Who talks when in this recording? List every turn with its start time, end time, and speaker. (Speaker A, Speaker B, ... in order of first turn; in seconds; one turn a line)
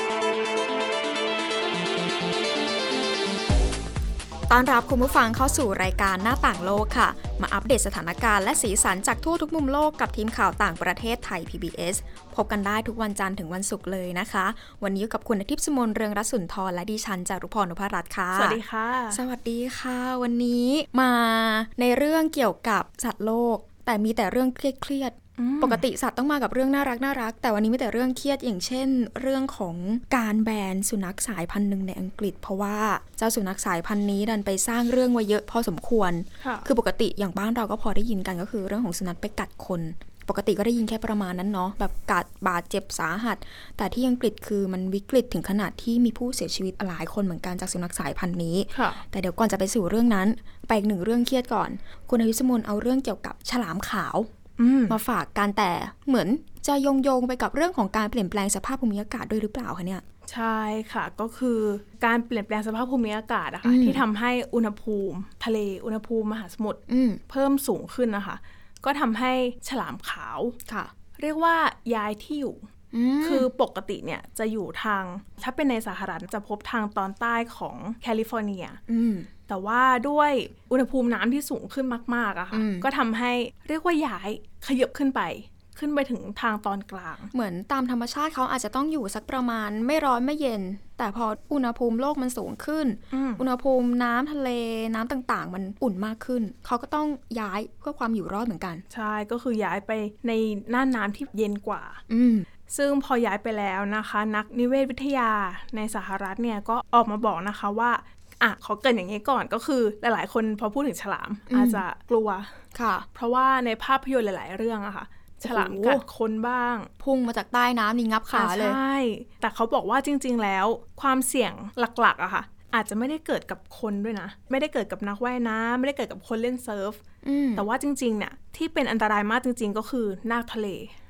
Speaker A: 4.5-54.3
Speaker B: 18.3-19.2
Speaker B: 25.4-25.9
Speaker B: 36.4-36.7
Speaker B: 48.7-49.0
Speaker B: 54.6-55.0
Speaker A: 54.9-60.0
Speaker B: 60.3-70.6
Speaker A: 63.6-64.0
Speaker A: 66.9-67.2
Speaker A: 70.7-70.9
Speaker B: 71.2-72.7
Speaker A: 72.9-73.5
Speaker B: 73.2-78.8
Speaker A: 78.9-79.3
Speaker B: 79.5-87.3
Speaker A: 82.5-82.9
Speaker A: 87.3-98.8
Speaker B: 93.1-93.4
Speaker B: 98.9-102.0
Speaker A: 102.1-102.5
Speaker B: 102.7-112.5
Speaker A: 111.5-111.8
Speaker A: 112.7-113.1
Speaker B: 113.1-116.9
Speaker A: 115.4-116.0
Speaker A: 117.0-118.8
Speaker B: 118.3-127.0
Speaker A: 127.2-127.6
Speaker B: 127.5-130.9